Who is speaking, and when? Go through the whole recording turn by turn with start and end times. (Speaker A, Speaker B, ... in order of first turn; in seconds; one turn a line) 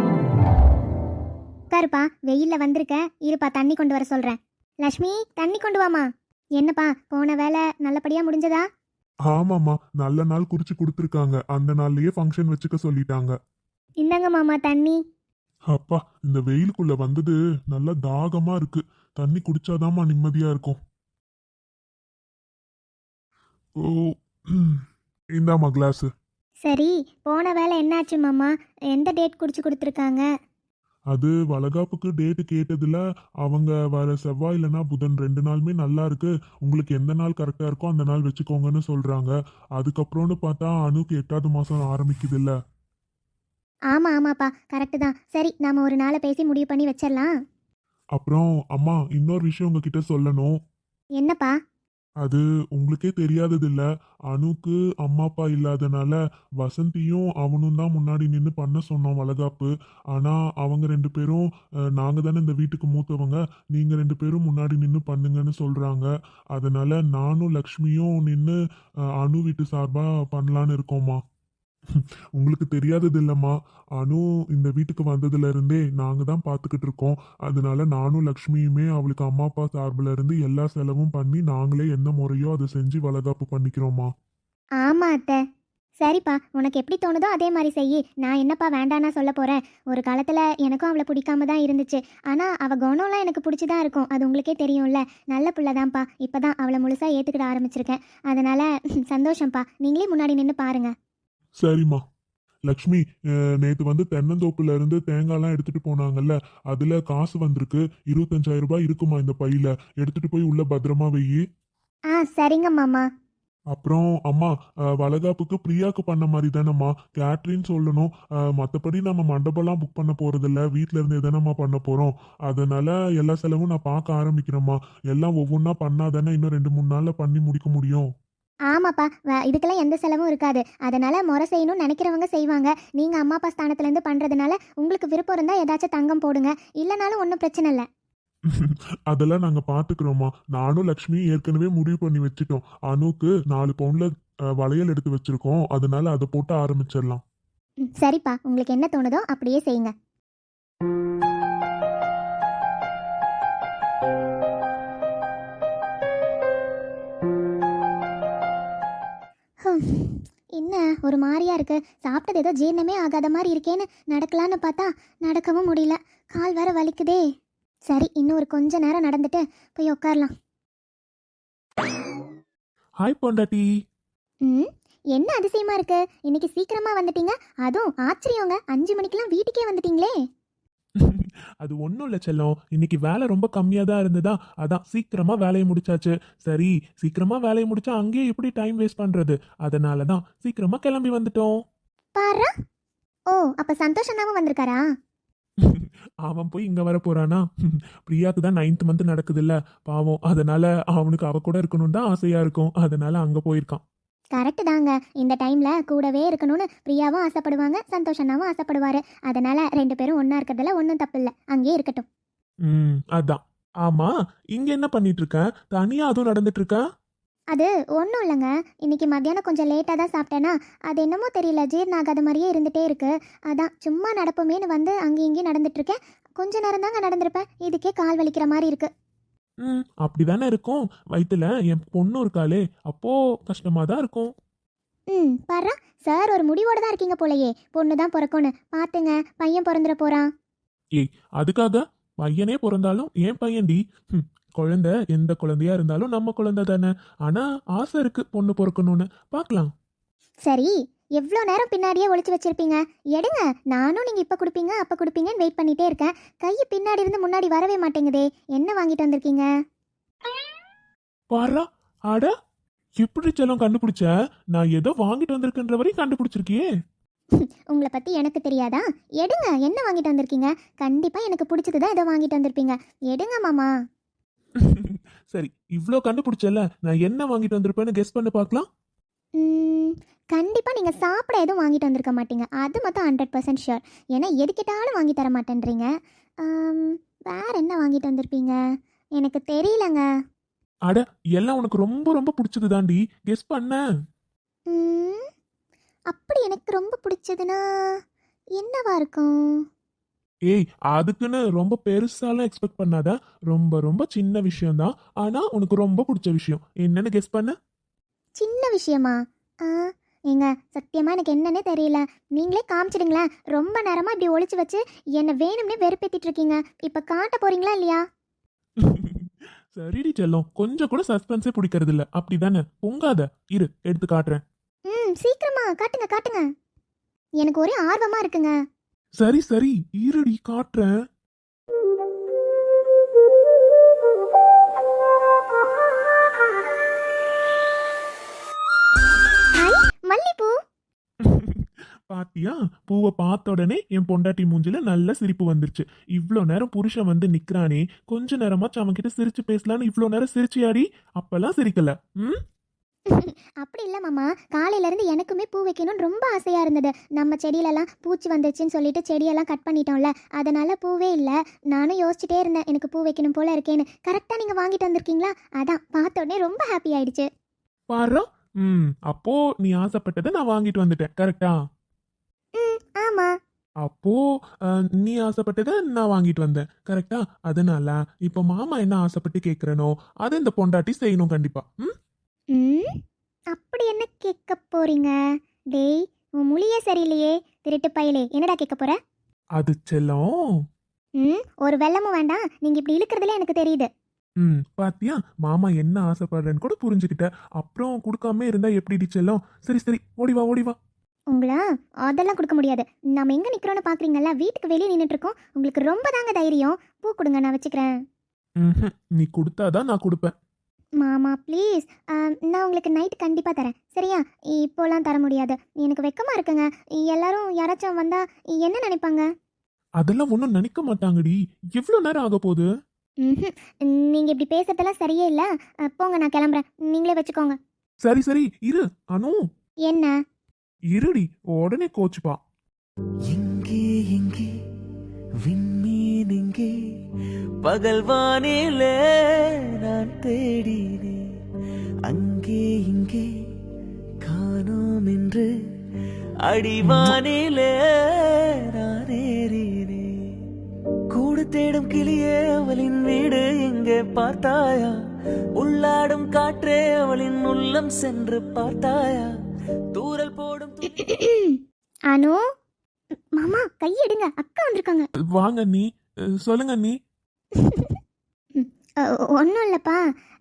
Speaker A: 1.7-8.7
Speaker B: 9.3-13.3
Speaker A: 14.0-15.0
Speaker B: 15.7-20.8
Speaker B: 23.8-24.8
Speaker B: 25.4-26.1
Speaker A: 26.6-30.2
Speaker B: 31.1-42.6
Speaker A: 43.9-47.3
Speaker B: 48.2-50.5
Speaker A: 51.2-51.5
Speaker B: 52.2-68.6
Speaker B: 69.2-71.2
Speaker B: 72.0-84.1
Speaker A: 84.8-85.4
Speaker A: 86.0-100.9
Speaker B: 101.6-102.0
Speaker B: 102.7-103.0
Speaker B: 103.6-111.4
Speaker A: 112.1-113.0
Speaker B: 113.7-128.1
Speaker A: 128.7-137.8
Speaker B: 138.5-147.2
Speaker A: 148.0-149.9
Speaker A: 159.6-167.2
Speaker A: 167.9-170.3
Speaker C: 173.0-173.7
Speaker A: 174.4-180.2
Speaker C: 181.0-191.5
Speaker A: 192.2-192.5
Speaker A: 193.3-194.8
Speaker C: 195.7-203.8
Speaker A: 204.3-212.1
Speaker C: 212.7-216.8
Speaker A: 217.5-228.9
Speaker C: 229.6-234.3
Speaker A: 235.1-240.3
Speaker C: 241.0-249.7
Speaker A: 250.4-259.5
Speaker C: 261.3-262.3
Speaker C: 263.0-266.6
Speaker A: 267.4-273.7
Speaker C: 274.6-278.7
Speaker A: 279.4-285.9
Speaker A: 286.4-288.6
Speaker A: 289.2-290.1
Speaker C: 290.9-293.8
Speaker A: 294.7-295.3
Speaker A: 296.1-297.9
Speaker A: 298.6-299.6
Speaker C: 300.5-307.6
Speaker A: 308.4-318.0
Speaker C: 318.8-324.4
Speaker A: 324.9-326.5
Speaker A: 327.4-328.6
Speaker C: 329.2-330.9
Speaker A: 339.6-340.6
Speaker C: 341.2-352.4
Speaker A: 353.1-367.3
Speaker C: 367.9-371.5
Speaker A: 372.6-373.3
Speaker C: 373.8-381.9
Speaker A: 382.5-382.9
Speaker A: 383.5-385.1
Speaker A: 385.7-389.0
Speaker C: 389.6-390.3
Speaker A: 391.2-393.9
Speaker C: 394.4-400.8
Speaker A: 401.3-407.9
Speaker C: 408.6-410.3
Speaker A: 411.0-419.3
Speaker C: 420.0-422.7
Speaker A: 423.2-427.6
Speaker C: 428.0-429.4
Speaker A: 429.9-430.1
Speaker C: 430.9-432.4
Speaker D: 433.3-434.5
Speaker D: 435.5-436.7
Speaker D: 437.6-438.9
Speaker D: 439.9-441.2
Speaker D: 442.1-443.2
Speaker D: 444.3-445.4
Speaker D: 446.5-447.7
Speaker C: 446.8-447.2
Speaker D: 448.8-450.0
Speaker D: 451.1-454.9
Speaker D: 455.6-459.3
Speaker D: 459.9-460.8
Speaker A: 460.9-461.6
Speaker A: 462.1-462.4
Speaker A: 463.4-465.1
Speaker C: 465.4-465.8
Speaker C: 466.4-466.9
Speaker A: 467.6-468.0
Speaker A: 468.6-470.0